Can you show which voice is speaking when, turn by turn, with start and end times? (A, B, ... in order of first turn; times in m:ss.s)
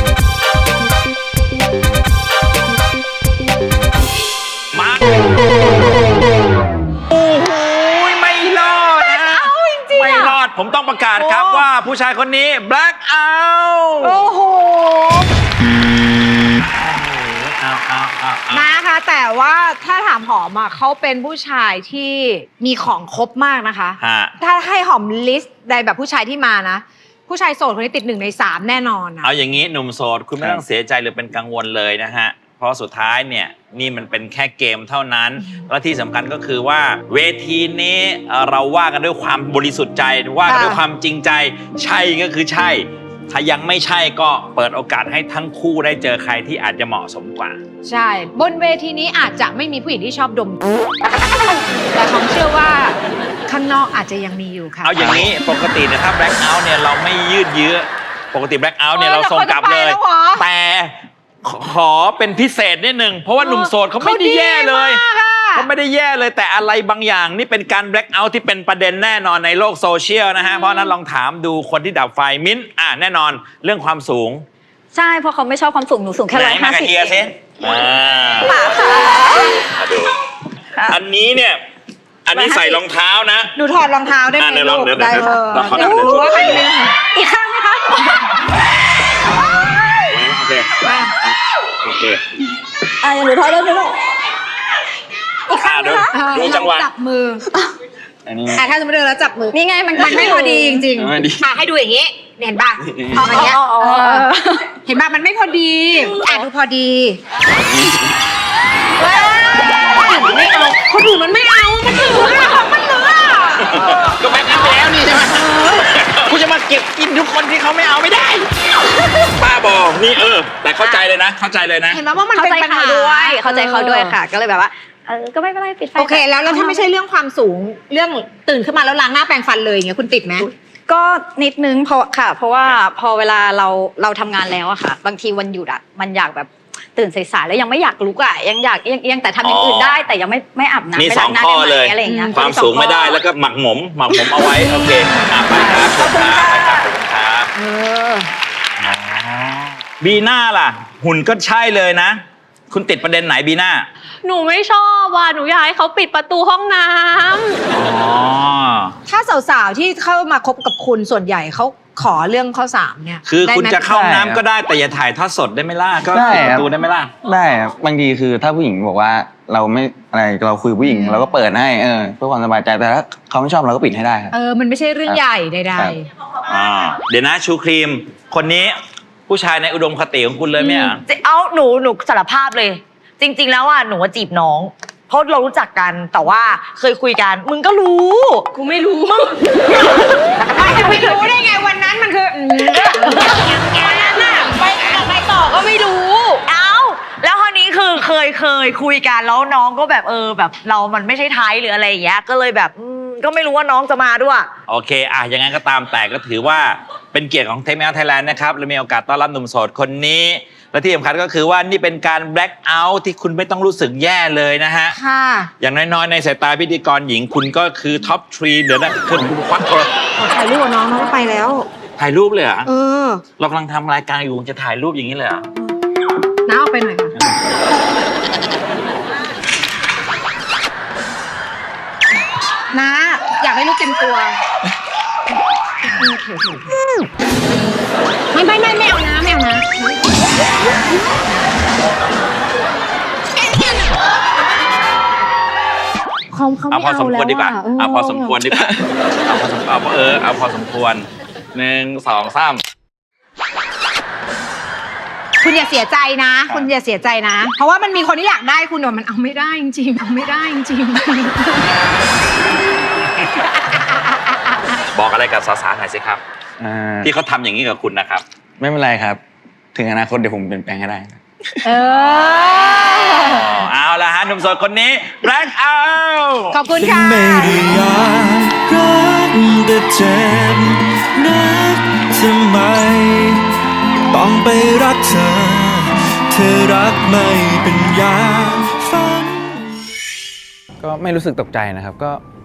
0:04.7-0:05.2 A
0:07.1-0:14.2 A
0:09.0-0:10.4 B
0:11.2-0:11.6 B
0:14.0-0:15.2 B
0:16.7-0:18.7 A
0:18.5-0:29.3 B
0:24.0-0:24.3 A
0:29.2-0:47.6 A
0:40.4-0:40.8 B
0:47.8-0:50.7 B
0:51.9-0:55.1 B
0:54.8-1:05.0 A
0:58.9-1:00.4 B
1:03.4-1:05.7 B
1:05.5-1:14.4 A
1:10.6-1:10.9 C
1:14.9-1:17.2 C
1:16.3-1:18.7 A
1:18.5-1:19.3 C
1:19.6-1:20.1 A
1:20.8-1:21.6 A
1:22.2-1:23.5 A
1:22.3-1:22.8 C
1:23.6-1:28.1 B
1:24.4-1:26.7 A
1:30.1-1:32.2 A
1:30.8-1:31.1 B
1:33.0-1:33.9 C
1:35.5-1:37.4 B
1:35.5-1:36.9 A
1:38.2-1:38.6 D
1:38.5-1:47.2 B
1:39.5-1:40.8 C
1:40.9-1:41.4 D
1:42.9-1:43.2 D
1:43.2-1:44.6 C
1:46.0-1:46.5 C
1:49.0-1:53.8 B
1:53.6-1:58.5 A
1:55.3-1:55.7 B
1:59.4-2:02.0 A
2:00.8-2:01.0 C
2:01.9-2:04.2 B
2:02.3-2:06.9 C
2:06.0-2:10.5 B
2:10.4-2:23.2 C
2:19.4-2:20.0 A
2:20.9-2:27.5 A
2:22.0-2:22.4 B
2:25.5-2:26.8 C
2:27.6-2:28.3 B
2:28.8-2:32.2 A
2:32.7-2:33.9 A
2:34.2-2:37.5 E
2:37.7-2:38.9 A
2:39.1-2:44.2 B
2:43.2-2:47.1 A
2:43.9-2:44.4 D
2:46.1-2:46.7 D
2:47.2-2:54.3 D
2:50.8-2:51.3 B
2:54.3-2:56.0 B
2:56.5-2:58.7 A
2:59.3-3:01.0 A
3:01.0-3:08.4 F
3:10.4-3:15.6 B
3:16.5-3:24.5 F
3:24.7-3:35.0 A
3:34.9-3:35.5 B
3:35.6-3:39.9 A
3:40.2-3:41.6 B
3:42.0-3:42.7 A
3:42.6-3:43.2 B
3:43.4-3:45.4 A
3:46.4-3:47.1 B
3:52.7-3:54.4 B
3:55.8-3:56.7 B
3:58.3-4:00.1 B
4:06.3-4:08.4 B
4:06.7-4:08.7 A
4:09.2-4:12.6 A
4:15.4-4:21.7 B
4:24.9-4:26.2 A
4:26.6-4:27.1 D
4:27.0-4:28.2 A
4:28.6-4:29.2 D
4:29.7-4:31.8 D
4:31.6-4:33.5 B
4:31.9-4:32.3 A
4:33.1-4:36.6 A
4:36.5-4:37.7 B
4:36.8-4:43.4 G
4:44.1-4:49.8 G
4:50.8-4:52.2 D